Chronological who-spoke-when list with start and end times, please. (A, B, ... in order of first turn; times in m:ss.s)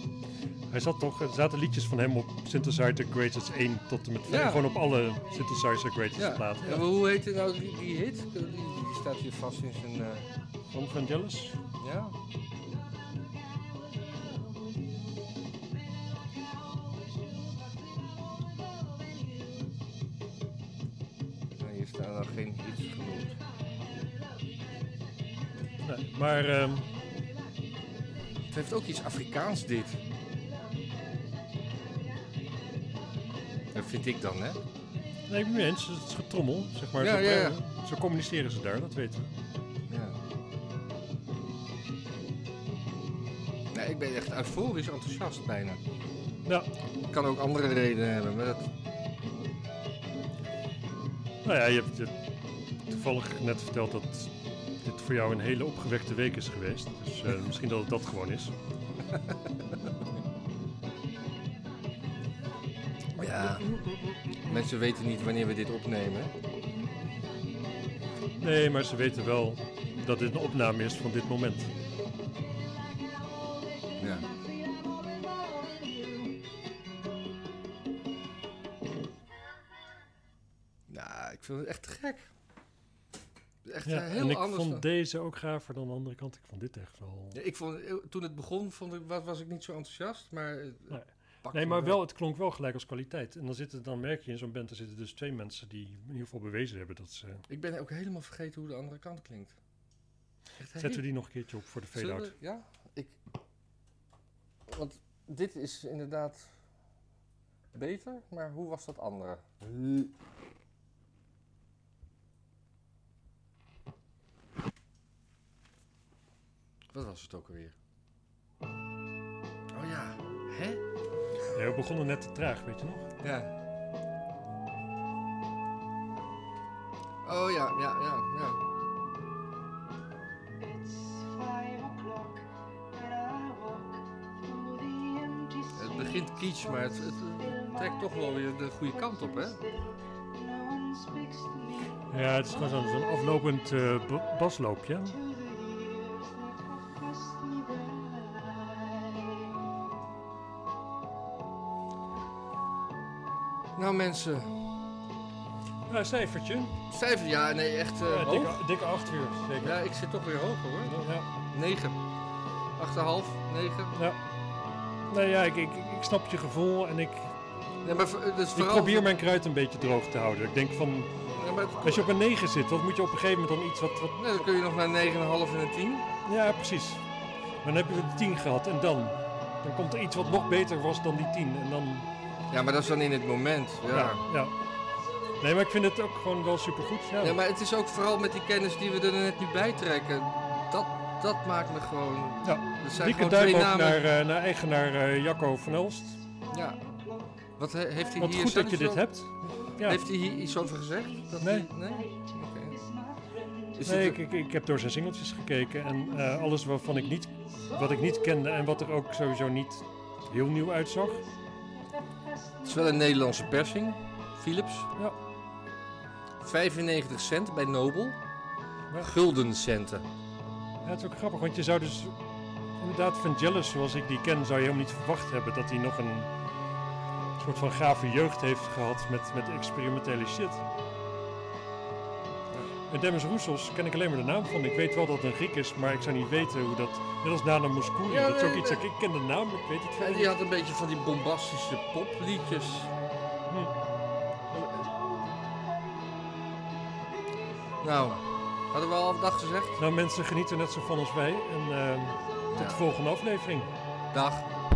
0:00.7-0:06.9 A
0:04.3-0:04.6 B
0:06.2-0:10.3 B
0:10.7-0:11.6 A
0:11.8-0:12.2 B
0:21.5-0:23.4 B
0:25.8-0:26.9 A
0:28.5-0:30.0 B
0:33.7-0:34.6 B
0:35.3-0:39.3 A
0:37.0-0:37.6 B
0:39.9-0:40.2 B
0:43.7-0:45.8 B
0:47.1-0:48.7 B
0:51.4-0:52.1 A
0:52.9-0:58.5 A
1:03.2-1:03.8 B
1:04.4-1:06.3 B
1:08.4-1:11.7 A
1:14.0-1:14.3 B
1:20.9-1:22.2 B
1:23.6-1:24.8 B
1:23.8-1:27.4 A
1:27.3-1:32.0 B
1:30.9-1:37.4 A
1:37.5-1:39.6 B
1:40.6-1:41.0 B
1:40.8-1:42.3 A
1:42.0-1:43.2 B
1:44.7-1:46.5 B
1:47.7-1:50.1 B
1:56.9-1:57.8 B
1:59.7-2:00.8 B
2:01.5-2:03.0 A
2:03.2-2:03.5 B
2:07.2-2:08.6 B
2:15.7-2:19.6 B
2:22.1-2:25.2 A
2:33.8-2:34.5 B
2:35.9-2:36.8 A
2:36.9-2:38.6 B
2:38.0-2:39.8 A
2:39.6-2:41.0 B
2:40.9-2:41.3 A
2:41.5-2:42.0 B
2:42.8-2:44.0 B
2:45.1-2:47.3 A
2:47.8-2:49.1 B
2:48.6-2:51.1 A
2:51.4-2:52.1 B
2:51.8-2:54.3 A
2:54.2-2:56.1 B
2:56.3-2:57.0 A
2:57.6-3:02.1 A
3:02.5-3:04.2 B
3:03.9-3:04.5 A
3:05.4-3:07.4 A
3:07.2-3:14.0 B
3:12.4-3:16.2 A
3:16.5-3:16.8 B
3:17.6-3:22.8 B
3:18.2-3:20.0 A
3:21.4-3:21.7 A
3:23.8-3:24.2 B
3:23.8-3:31.3 A
3:32.6-3:34.9 B
3:36.4-3:38.2 B
3:39.0-3:40.0 B
3:40.8-3:42.1 A
3:42.8-3:46.3 A
3:47.4-3:50.6 A
3:52.9-4:00.4 A
3:58.1-3:58.8 B
4:00.0-4:02.9 B
4:04.5-4:04.9 B
4:07.8-4:09.8 B
4:09.8-4:13.7 A
4:12.5-4:12.8 B
4:14.1-4:14.5 B